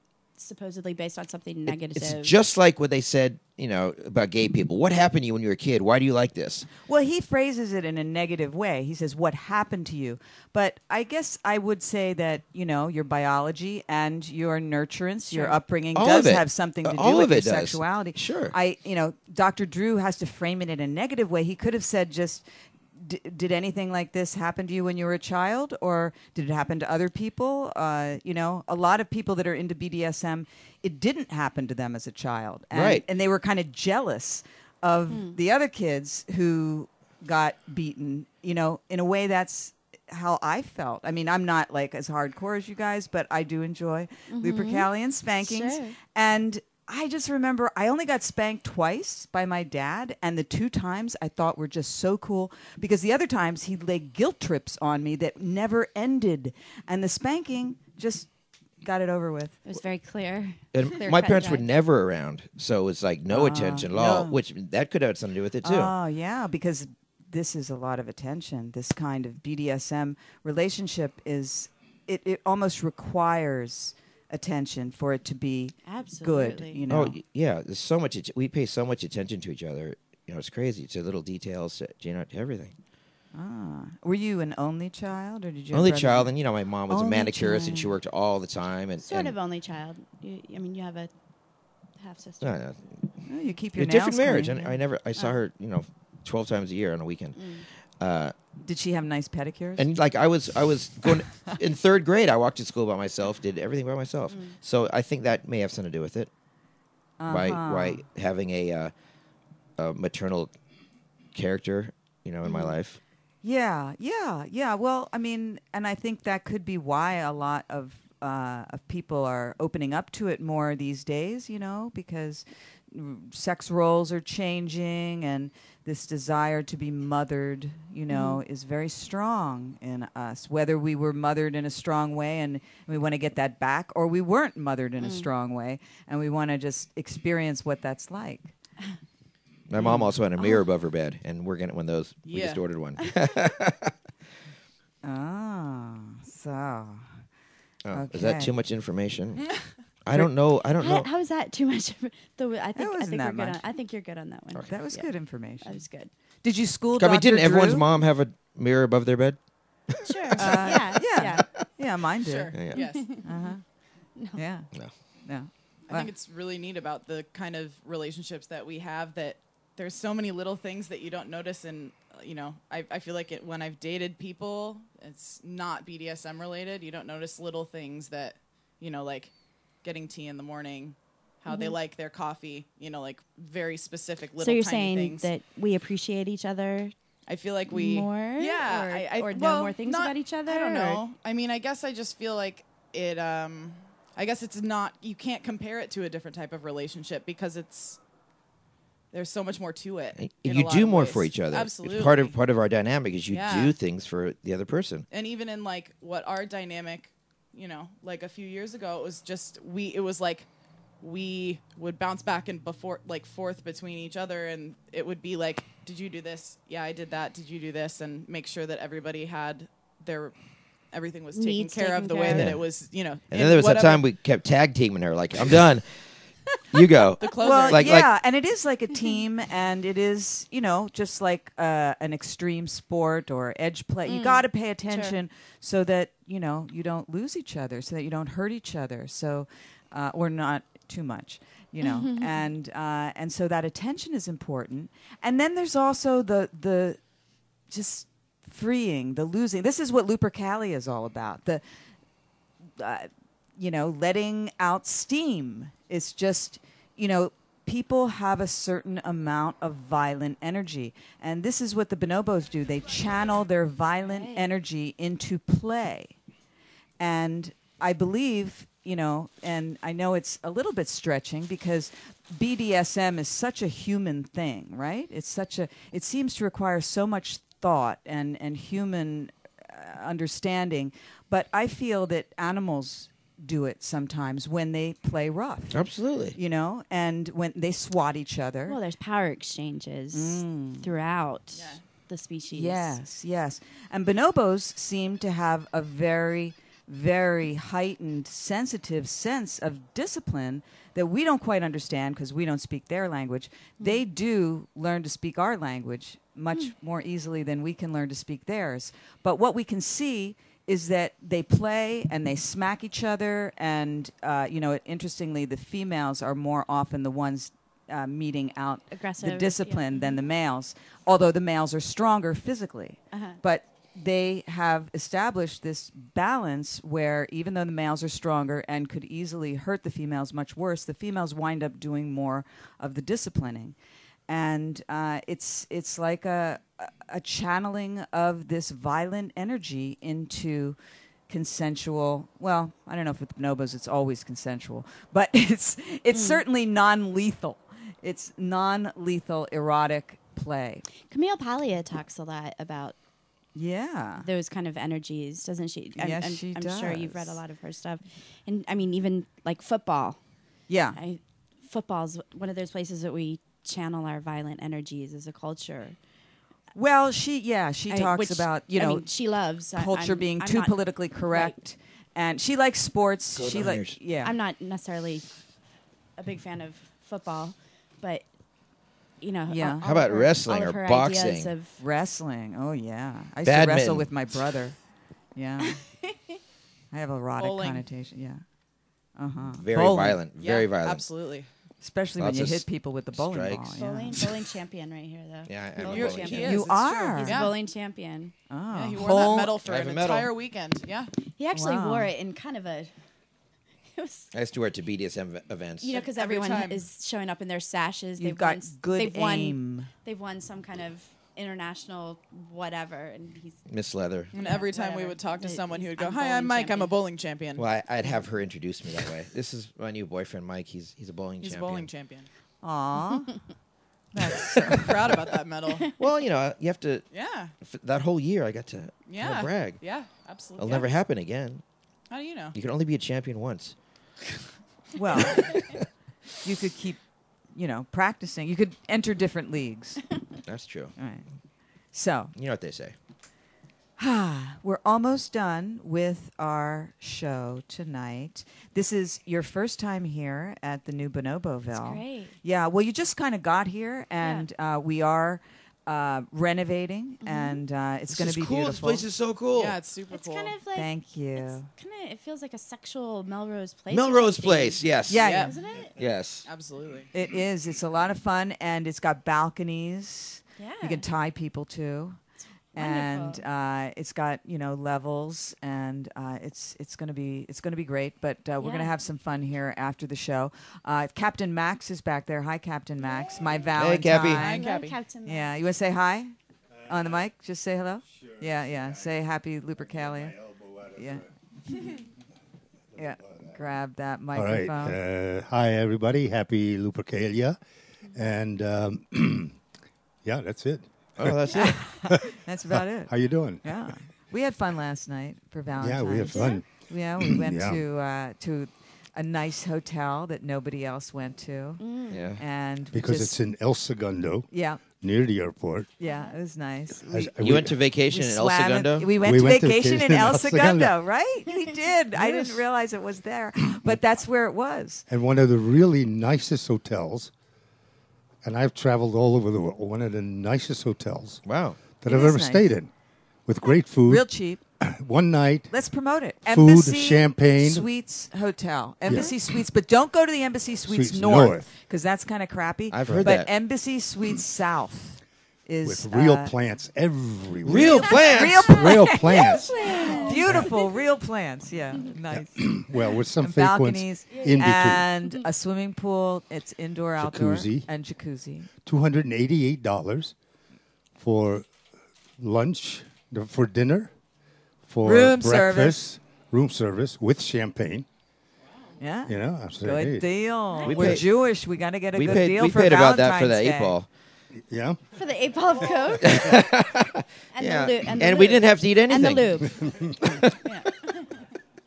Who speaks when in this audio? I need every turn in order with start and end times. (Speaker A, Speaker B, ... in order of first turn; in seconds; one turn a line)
Speaker A: 0.4-2.4
Speaker B: 1.7-6.7
Speaker C: 6.8-58.3
Speaker A: 15.3-15.6
Speaker B: 15.9-18.6
Speaker B: 32.7-33.0
Speaker A: 35.1-35.4
Speaker A: 44.3-44.9
Speaker A: 45.4-46.0
Speaker C: 58.8-59.7
Speaker A: 59.7-61.7
Speaker B: 60.7-65.9
Speaker C: 63.3-64.4
Speaker C: 65.6-77.2
Speaker A: 75.9-76.8
Speaker B: 76.9-82.7
Speaker C: 83.3-86.3
Speaker B: 85.7-89.3
Speaker C: 86.9-87.9
Speaker A: 89.0-91.1
Speaker A: 92.0-92.5
Speaker B: 92.4-92.8
Speaker C: 93.3-94.8
Speaker B: 93.8-97.4
Speaker A: 97.4-97.7
Speaker B: 98.0-98.3
Speaker C: 98.6-99.9
Speaker B: 99.8-106.3
Speaker C: 101.0-101.6
Speaker A: 104.3-104.5
Speaker C: 107.2-108.0
Speaker B: 107.3-108.9
Speaker B: 109.8-110.5
Speaker B: 111.3-113.0
Speaker C: 113.4-138.5
Speaker A: 128.1-128.4
Speaker A: 135.0-135.3
Speaker B: 139.7-143.9
Speaker C: 139.8-140.1
Speaker D: 142.3-142.6
Speaker C: 145.0-147.2
Speaker B: 147.8-149.5
Speaker C: 147.9-148.5
Speaker B: 150.1-151.1
Speaker A: 150.8-155.1
Speaker C: 152.8-153.6
Speaker C: 154.7-155.8
Speaker A: 155.6-156.1
Speaker C: 156.4-158.0
Speaker B: 157.0-159.4
Speaker B: 159.9-160.8
Speaker A: 160.0-161.5
Speaker C: 160.4-162.6
Speaker D: 162.2-163.2
Speaker B: 162.5-162.8
Speaker A: 162.7-163.5
Speaker C: 163.2-163.6
Speaker C: 164.3-164.7
Speaker C: 165.3-166.1
Speaker D: 165.9-179.3
Speaker D: 179.8-185.3
Speaker A: 181.5-181.8
Speaker A: 184.4-186.9
Speaker D: 187.3-198.0
Speaker A: 187.7-191.0
Speaker D: 199.1-202.3
Speaker B: 200.2-205.1
Speaker D: 203.3-203.7
Speaker D: 205.1-210.5
Speaker D: 211.0-220.3
Speaker D: 220.9-224.0
Speaker A: 221.3-222.5
Speaker B: 222.3-222.7
Speaker B: 223.3-225.9
Speaker B: 226.7-228.1
Speaker D: 227.2-227.9
Speaker C: 227.3-247.0
Speaker A: 234.1-235.2
Speaker A: 241.8-242.3
Speaker C: 247.7-251.6
Speaker C: 252.8-266.1
Speaker A: 264.0-264.5
Speaker C: 267.0-285.8
Speaker B: 285.7-286.4
Speaker C: 286.3-288.8
Speaker A: 288.7-293.0
Speaker C: 290.1-290.9
Speaker D: 291.5-291.8
Speaker C: 292.5-333.8
Speaker A: 318.9-320.2
Speaker A: 323.1-323.4
Speaker C: 334.3-340.8
Speaker C: 341.3-350.9
Speaker A: 346.1-346.4
Speaker A: 351.1-352.9
Speaker C: 353.6-354.3
Speaker A: 354.2-360.2
Speaker C: 356.0-357.4
Speaker C: 360.7-361.0
Speaker A: 360.9-366.0
Speaker C: 366.7-369.1
Speaker A: 367.9-371.6
Speaker C: 369.8-374.3
Speaker B: 373.4-374.0
Speaker A: 374.2-375.2
Speaker A: 376.2-378.2
Speaker A: 379.2-381.8
Speaker C: 379.5-379.8
Speaker B: 379.8-381.5
Speaker C: 381.8-384.8
Speaker B: 383.4-384.1
Speaker C: 385.4-385.8
Speaker C: 386.9-388.4
Speaker D: 387.4-387.9
Speaker C: 389.2-390.2
Speaker B: 389.6-391.1
Speaker D: 390.4-391.5
Speaker C: 391.8-394.3
Speaker B: 392.2-393.7
Speaker A: 393.8-396.6
Speaker B: 395.5-396.6
Speaker D: 395.9-397.6
Speaker C: 396.4-397.5
Speaker A: 397.1-398.3
Speaker C: 398.5-399.6
Speaker D: 398.7-401.1
Speaker B: 399.4-400.3
Speaker A: 401.4-402.9
Speaker C: 401.5-402.1
Speaker A: 403.9-404.3
Speaker B: 404.3-406.0
Speaker A: 405.8-413.6
Speaker D: 405.9-406.8
Speaker C: 408.2-409.9
Speaker B: 413.7-414.3
Speaker D: 414.3-417.7
Speaker A: 414.4-416.9
Speaker B: 417.6-421.9
Speaker D: 421.4-422.3
Speaker C: 422.6-423.4
Speaker C: 424.1-425.2
Speaker D: 424.7-425.9
Speaker B: 426.0-427.1
Speaker D: 427.1-427.5
Speaker B: 427.6-429.8
Speaker D: 429.1-430.9
Speaker B: 430.6-431.6
Speaker D: 432.1-432.6
Speaker B: 432.6-433.8
Speaker C: 434.9-435.6
Speaker B: 435.3-435.8
Speaker C: 436.4-437.0
Speaker C: 437.5-440.0
Speaker B: 440.5-440.9
Speaker C: 441.0-441.2
Speaker C: 441.9-442.3
Speaker B: 442.4-442.9
Speaker C: 444.0-459.1
Speaker A: 451.7-452.3
Speaker A: 454.2-454.5
Speaker A: 457.2-457.6
Speaker B: 458.1-459.8
Speaker D: 459.6-460.6
Speaker A: 460.1-465.9
Speaker C: 460.8-461.7
Speaker B: 463.9-465.4
Speaker C: 465.1-465.6
Speaker D: 465.1-465.6
Speaker B: 466.0-466.5
Speaker D: 466.5-467.1
Speaker C: 467.1-472.2
Speaker A: 470.6-471.1
Speaker A: 472.8-473.4
Speaker C: 472.8-484.7
Speaker A: 478.6-478.9
Speaker B: 483.8-484.5
Speaker D: 484.4-485.0
Speaker A: 484.4-485.6
Speaker C: 485.2-486.4
Speaker C: 486.9-490.4
Speaker E: 490.2-491.2
Speaker C: 491.0-491.2
Speaker C: 493.0-495.0
Speaker E: 493.0-493.5
Speaker E: 494.4-497.6
Speaker E: 498.1-499.6
Speaker E: 500.2-503.9
Speaker B: 501.2-501.9
Speaker C: 501.5-511.9
Speaker E: 505.8-506.7
Speaker A: 506.2-506.6
Speaker E: 507.2-507.8
Speaker A: 511.8-512.2
Speaker B: 512.1-512.4
Speaker C: 512.4-513.4
Speaker E: 512.9-515.9
Speaker C: 514.5-514.8
Speaker C: 516.0-517.3
Speaker E: 517.0-517.8
Speaker B: 517.4-519.1
Speaker C: 518.1-525.0
Speaker E: 519.2-521.0
Speaker E: 525.1-527.3
Speaker E: 528.4-531.4
Speaker B: 531.5-531.8
Speaker E: 532.0-532.9
Speaker C: 532.1-532.7
Speaker E: 533.5-534.3
Speaker C: 534.0-534.6
Speaker E: 534.8-535.7
Speaker C: 535.7-546.5
Speaker E: 536.5-537.9
Speaker E: 539.1-539.4
Speaker E: 540.9-541.7
Speaker B: 542.9-543.5
Speaker E: 543.1-543.3
Speaker E: 545.8-550.8
Speaker B: 547.6-548.8
Speaker C: 547.8-552.8
Speaker A: 549.0-550.7
Speaker E: 552.3-555.1
Speaker C: 553.4-558.7
Speaker E: 557.2-557.9
Speaker E: 558.8-560.3
Speaker E: 561.2-561.7
Speaker E: 562.4-564.1
Speaker E: 564.9-568.1
Speaker C: 565.0-566.0
Speaker C: 569.0-574.0
Speaker E: 569.3-570.3
Speaker B: 570.8-571.3
Speaker B: 572.1-574.1
Speaker E: 574.7-575.0
Speaker A: 575.1-576.6
Speaker B: 576.2-580.6
Speaker A: 577.5-580.0
Speaker E: 579.8-580.1
Speaker A: 580.6-580.9